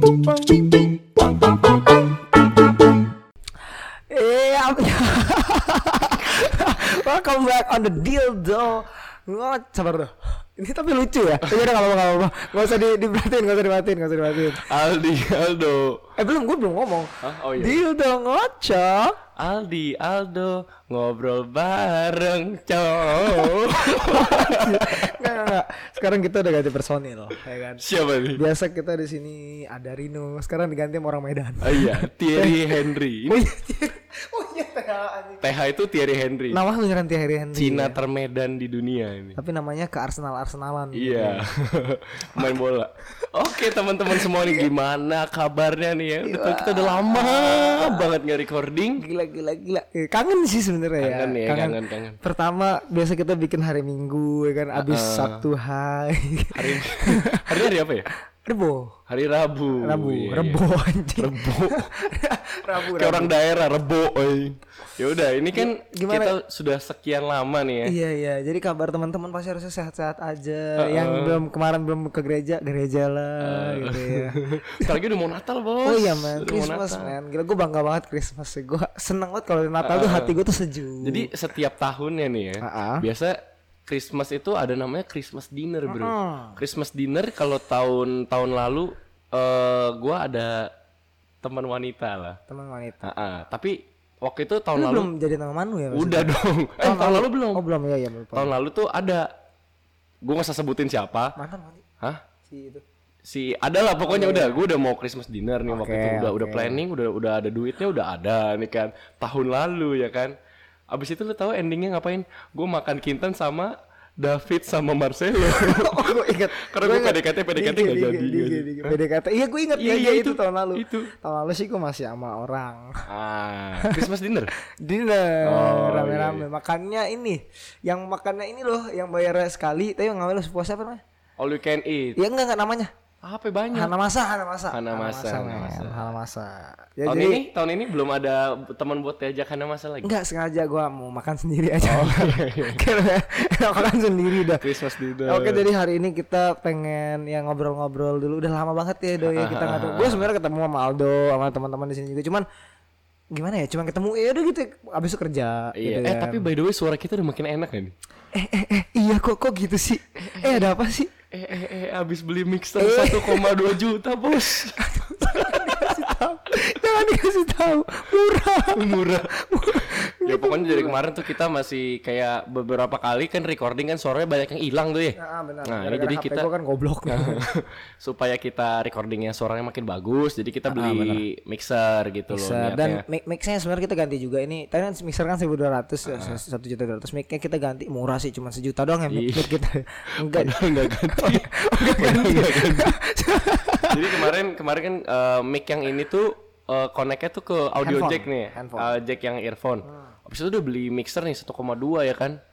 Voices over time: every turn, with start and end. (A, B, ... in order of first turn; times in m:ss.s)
0:00.2-0:00.7 A
0:04.1-0:14.6 A
0:14.6-0:16.1 B
0:16.2-0:19.2 A
0:17.2-0:17.8 B
0:19.4-0:25.4 B
0:23.1-0:27.8 A
0:27.8-0:28.4 B
0:28.3-0:35.4 A
0:31.6-0:33.4 B
0:35.4-0:36.6 B
0:36.5-0:38.0 A
0:37.5-0:39.4 B
0:39.4-0:41.4 A
0:40.9-0:49.0 B
0:44.1-0:44.7 A
0:46.2-0:48.1 A
0:49.0-0:57.6 A
0:51.0-0:52.2 B
0:54.8-0:55.4 B
0:56.5-0:58.1 B
0:58.4-0:59.0 A
0:59.1-1:00.6 B
0:59.8-1:03.3 A
1:01.2-1:01.9 B
1:02.9-1:07.9 B
1:05.5-1:06.4 A
1:07.8-1:15.0 A
1:10.8-1:11.4 B
1:13.4-1:17.1 B
1:15.8-1:21.3 A
1:19.8-1:20.3 B
1:21.0-1:30.7 B
1:22.6-1:23.0 A
1:25.9-1:26.6 A
1:31.4-1:32.4 B
1:32.5-1:33.1 A
1:33.0-1:35.1 B
1:34.7-1:38.5 A
1:35.9-1:37.6 B
1:38.3-1:39.3 B
1:40.2-1:41.4 B
1:41.4-1:41.8 A
1:42.5-1:42.8 A
1:43.2-1:50.3 B
1:44.0-1:44.6 A
1:45.7-1:46.8 A
1:50.9-1:59.0 B
1:55.4-2:03.0 A
1:59.8-2:01.1 B
2:03.1-2:04.5 B
2:03.8-2:04.1 A
2:04.6-2:11.0 A
2:05.4-2:06.4 B
2:11.4-2:12.2 B
2:12.2-2:12.9 A
2:13.2-2:13.9 B
2:13.7-2:17.4 A
2:14.7-2:16.1 B
2:17.0-2:20.1 B
2:20.0-2:24.6 A
2:21.8-2:22.8 B
2:24.5-2:25.6 B
2:25.2-2:32.4 A
2:29.2-2:30.2 B
2:33.3-2:36.5 A
2:35.7-2:37.9 B
2:38.3-2:41.1 A
2:40.2-2:40.6 B
2:41.3-2:46.1 B
2:42.8-2:43.5 A
2:44.5-2:51.0 A
2:48.7-2:56.5 B
2:55.2-2:57.4 A
2:57.1-3:03.0 B
3:00.7-3:01.2 A
3:02.3-3:14.3 A
3:06.1-3:06.4 B
3:09.1-3:09.6 B
3:10.2-3:12.9 B
3:13.9-3:22.4 B
3:17.8-3:19.0 A